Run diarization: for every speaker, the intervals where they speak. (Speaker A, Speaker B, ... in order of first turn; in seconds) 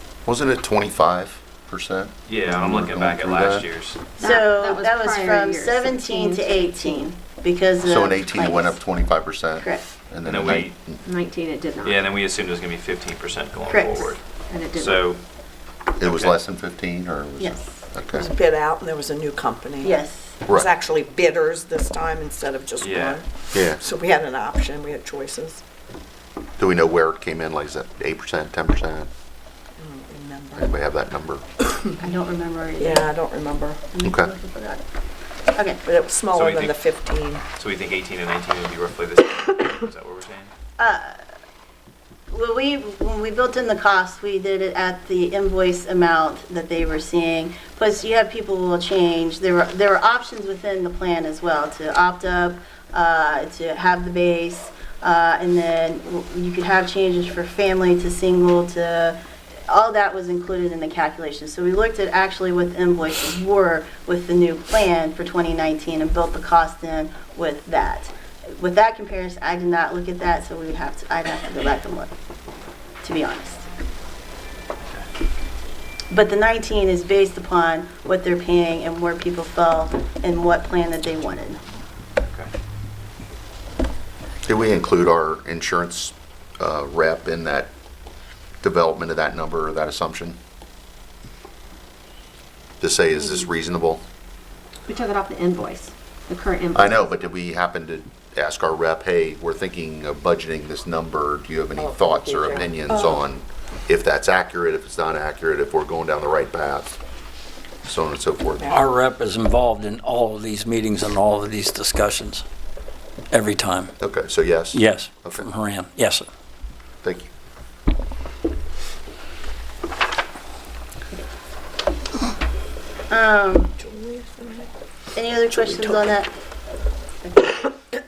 Speaker A: 0.3-3.7, 7.8-11.0, 16.0-18.3, 23.5-23.8, 26.6-29.1, 30.6-31.4, 34.0-34.3, 84.5-87.7, 88.6-90.4, 92.8-94.0, 96.7-107.0, 107.8-108.8, 114.0-115.5, 117.0-117.3
Speaker B: 2.3-4.0, 10.2-10.8, 11.8-15.2, 16.0-16.4, 22.8-23.2, 36.3-36.8, 37.6-40.5, 82.2-82.5
Speaker C: 4.2-8.8, 9.6-9.8, 13.7-14.2, 17.4-17.7, 19.8-20.4, 32.0-33.1, 33.9-34.8, 35.5-35.8, 40.8-41.2, 42.3-72.1, 73.0-73.7, 76.1-81.6, 123.1-123.7, 125.2-126.3, 127.2-127.7
Speaker D: 4.2-7.1, 11.0-12.0, 14.5-15.0, 94.9-97.1
Speaker E: 18.2-25.6, 29.8-30.7, 32.8-33.8, 35.8-37.4, 101.8-103.0, 123.8-124.7, 125.5-126.1
Speaker F: 108.6-112.5, 113.3-113.9, 114.7-116.3